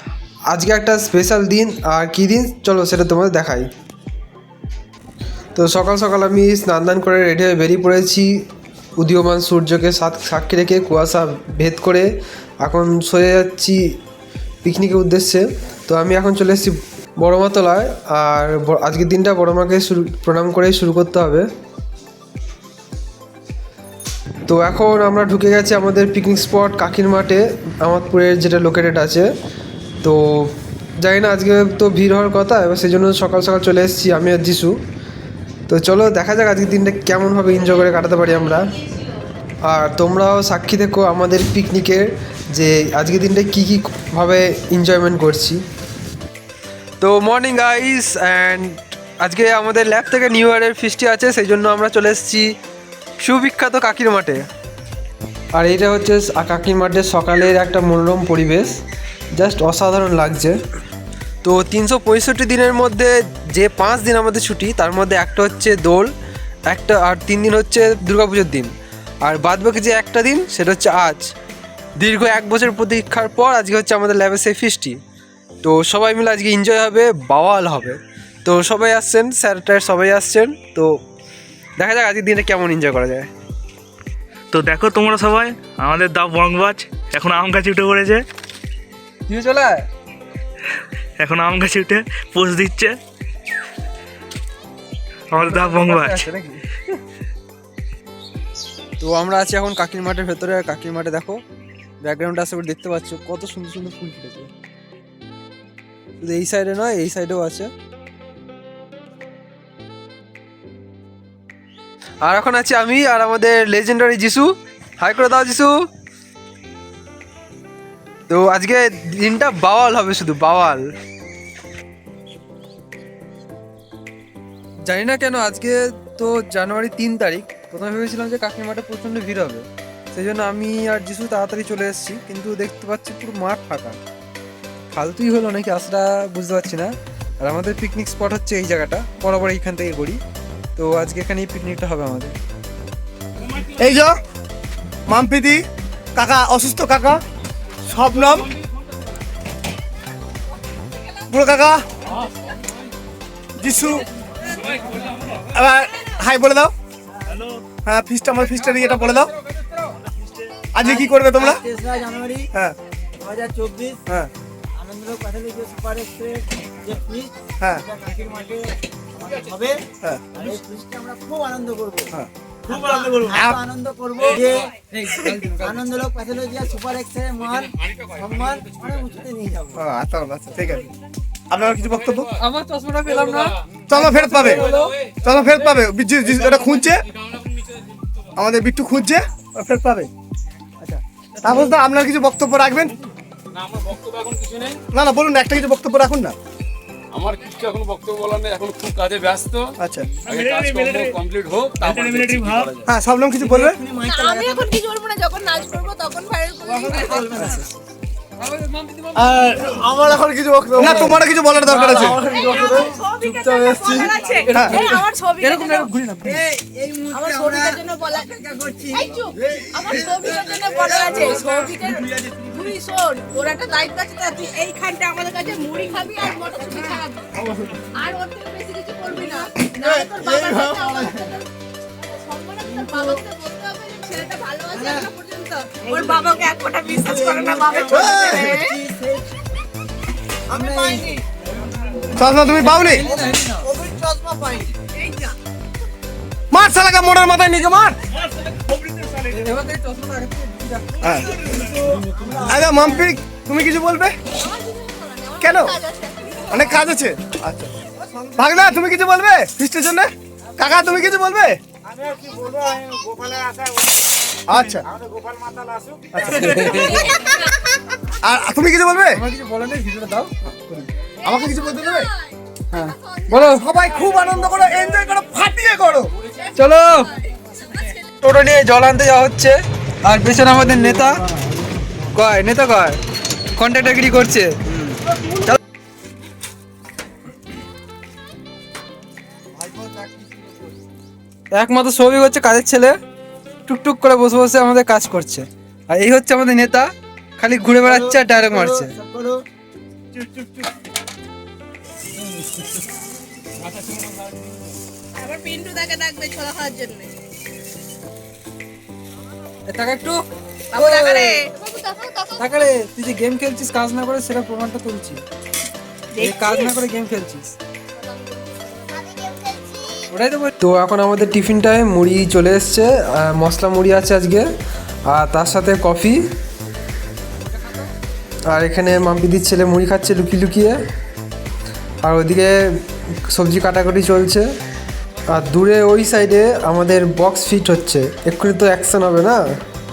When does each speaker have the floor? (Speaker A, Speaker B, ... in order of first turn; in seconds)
Speaker A: 0.5-3.7, 5.5-8.5, 9.0-14.0, 14.6-21.5, 24.5-29.3, 30.0-34.7, 35.7-38.7, 39.7-45.6, 47.0-52.5, 53.2-54.4, 55.5-58.8, 59.4-60.6, 61.4-66.1, 66.7-71.3, 72.0-75.0, 75.6-81.0, 81.8-83.3, 89.3-89.9, 95.4-96.6, 99.0-101.4, 102.0-104.5, 106.2-107.7, 112.2-115.7, 118.3-120.9, 124.9-134.0, 134.9-140.2, 140.8-142.3, 175.1-175.6, 182.4-184.9, 208.4-210.2, 210.8-211.1, 211.7-214.8, 215.4-216.4, 249.3-250.8, 266.4-267.1, 269.2-270.3, 272.7-273.6, 276.6-277.1, 278.2-279.5, 280.1-281.2, 282.1-283.0, 283.6-284.5, 291.5-292.9, 293.7-296.9, 297.4-298.9, 309.7-311.4, 312.4-315.2, 316.2-317.5, 320.1-324.5, 325.1-326.2, 328.5-330.8, 332.0-334.5, 335.3-339.4
Speaker B: 84.5-88.2, 91.2-93.0, 95.3-96.3
Speaker C: 143.8-144.1, 145.1-145.6, 146.2-147.2, 147.9-148.5, 151.3-151.8, 153.6-154.1, 155.5-156.7, 157.8-159.3, 160.7-161.6, 173.2-173.6, 179.8-180.9, 181.5-182.3, 183.9-187.0, 188.4-190.1, 190.9-192.9, 194.9-196.3, 199.8-200.1, 202.9-203.8, 210.6-212.2, 214.5-215.0, 237.7-238.6, 242.1-243.1, 246.5-248.0, 251.0-251.3, 252.4-254.2, 255.4-255.7, 256.5-257.7, 258.4-261.6, 264.5-264.8, 266.1-267.0, 268.2-269.2, 270.4-272.1, 273.4-276.1
Speaker D: 160.8-162.5, 163.2-164.0, 164.8-172.1, 172.7-174.7, 175.6-179.8, 203.4-204.7, 237.1-238.0, 238.6-239.3, 240.5-241.1, 243.6-244.7, 297.9-299.4
Speaker E: 197.2-199.6, 200.4-202.5
Speaker F: 204.0-207.6, 212.2-215.9, 217.1-227.4, 227.9-231.4, 232.1-238.8, 244.9-245.3, 254.4-256.7, 266.8-267.6, 271.3-273.6, 276.4-278.1, 305.2-307.1, 310.7-312.4, 316.1-316.8, 318.0-320.0